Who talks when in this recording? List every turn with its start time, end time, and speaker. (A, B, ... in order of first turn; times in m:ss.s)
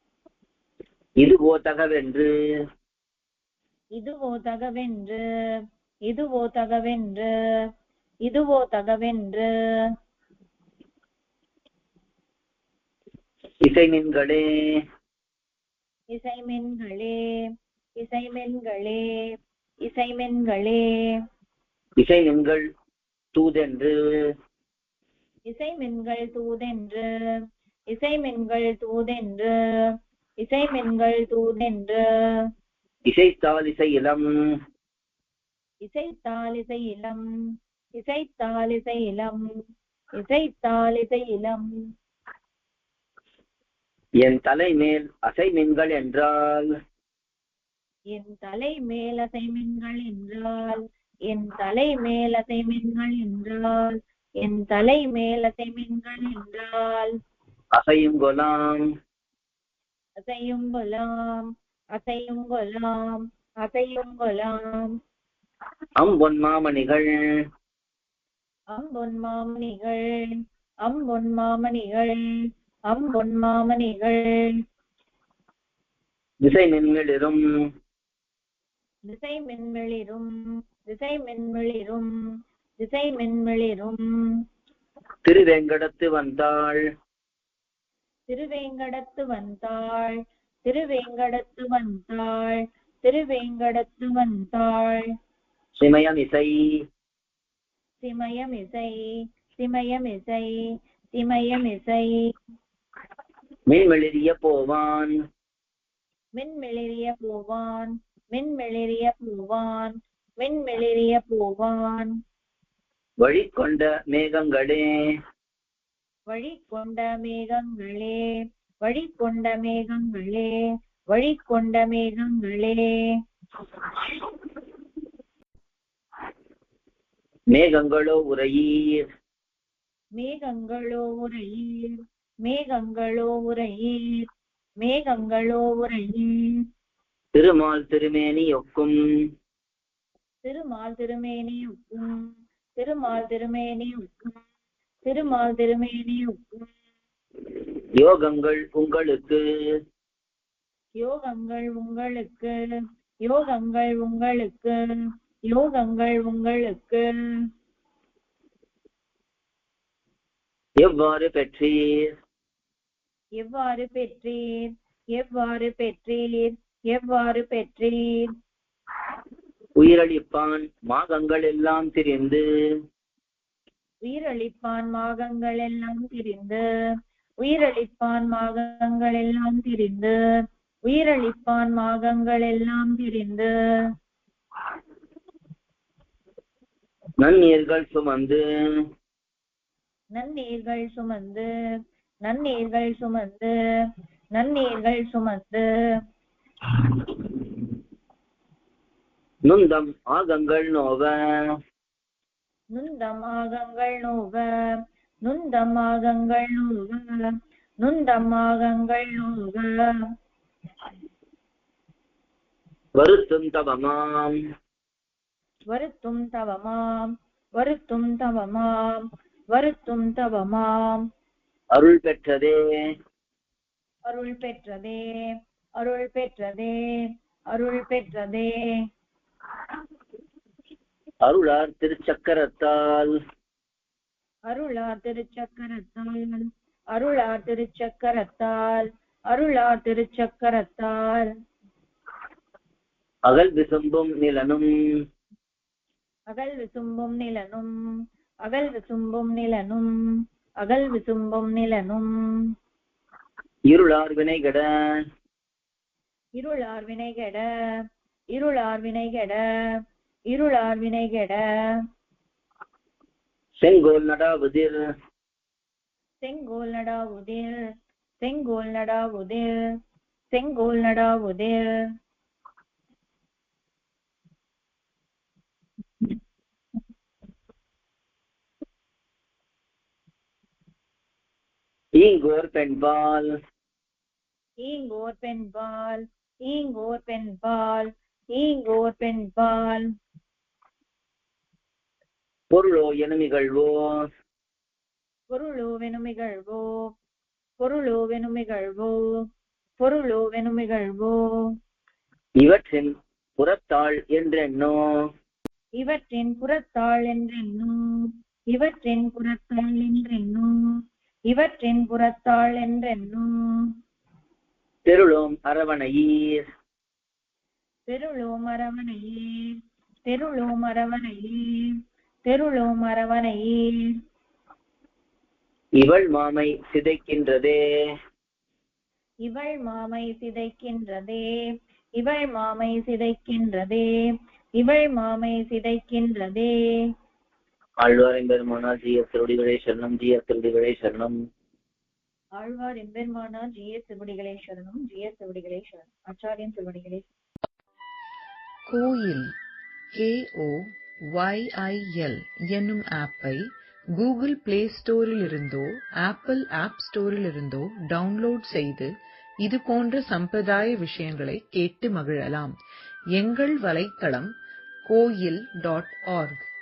0:01.2-0:02.3 A
0:04.0-0:05.2 B
0:06.1-0:07.3 B
0:08.3-0:09.5 B
0:13.6-0:14.5 A
0:16.1-0:17.2 B
0:18.0-0:19.0 B
0:19.9-0:20.8 B
0:22.0-0:22.7 A
0:23.3-0:24.0 A
0:25.5-0:27.0 B
0:27.9-0:29.5 B
0:30.4-0:32.0 B
0:33.1-0:34.3 A
0:35.8-0:37.2 B
0:38.0-0:39.4 B
0:40.2-0:41.7 B
0:44.2-0:46.7 A
0:48.1-0:57.1 B
0:57.8-0:58.8 A
1:00.3-1:01.4 B
1:02.0-1:04.9 B
1:06.0-1:07.1 A
1:08.7-1:10.1 B
1:10.8-1:12.2 B
1:12.9-1:14.3 B
1:16.4-1:17.4 A
1:19.1-1:20.3 B
1:20.9-1:22.1 B
1:22.8-1:24.0 B
1:25.2-1:26.8 A
1:28.3-1:35.0 B
1:35.8-1:36.6 A
1:38.0-1:39.0 B
1:39.6-1:40.5 B
1:41.1-1:42.1 B
1:43.7-1:45.1 A
1:46.4-1:52.1 B
1:53.2-1:54.9 A
1:56.3-1:58.2 B
1:58.8-2:00.5 B
2:01.1-2:02.9 B
2:07.5-2:09.0 A
2:10.2-2:11.9 B
2:12.4-2:14.3 B
2:14.8-2:16.3 B
2:17.4-2:19.0 A
2:20.4-2:22.2 B
2:22.8-2:24.3 B
2:25.1-2:26.7 B
2:28.0-2:29.4 A
2:31.0-2:32.5 B
2:33.2-2:34.7 B
2:35.5-2:37.1 B
2:40.8-2:41.8 A
2:43.4-2:48.3 B
2:49.8-2:52.4 A
2:54.0-2:56.6 B
2:57.4-3:00.2 B
3:00.9-3:03.5 B
3:07.2-3:08.4 A
3:10.2-3:11.5 B
3:12.3-3:13.5 B
3:14.4-3:15.6 B
3:19.5-3:21.1 A
3:22.8-3:24.4 B
3:25.2-3:27.1 B
3:27.8-3:29.7 B
3:33.0-3:34.4 A
3:35.7-3:41.0 B
3:41.7-3:42.7 A
3:44.1-3:45.0 B
3:45.8-3:46.8 B
3:47.5-3:48.5 B
3:51.2-3:53.1 A
3:54.5-3:56.4 B
3:56.9-4:01.3 B
4:03.3-4:04.7 A
4:06.3-4:07.7 B
4:08.5-4:09.9 B
4:10.6-4:12.1 B
4:13.7-4:14.7 A
4:16.4-4:17.4 B
4:18.3-4:19.4 B
4:20.3-4:21.4 B
4:23.6-4:24.8 A
4:26.2-4:27.6 B
4:28.2-4:29.5 B
4:30.3-4:31.6 B
4:42.0-4:43.3 A
4:44.6-4:49.8 B
4:52.5-4:53.8 A
4:55.3-4:56.6 B
4:57.6-4:59.0 B
4:59.8-5:01.2 B
5:02.4-5:04.8 A
5:05.8-5:07.8 B
5:08.5-5:10.5 B
5:11.3-5:13.3 B
5:14.9-5:16.4 A
5:17.9-5:19.2 B
5:20.1-5:21.4 B
5:22.3-5:23.7 B
5:25.8-5:27.6 A
5:29.2-5:31.3 B
5:32.0-5:33.9 B
5:34.6-5:36.5 B
5:37.8-5:41.2 A
5:42.4-5:47.0 B
5:48.7-5:49.3 C
5:49.9-6:02.6 C
6:03.1-6:06.5 C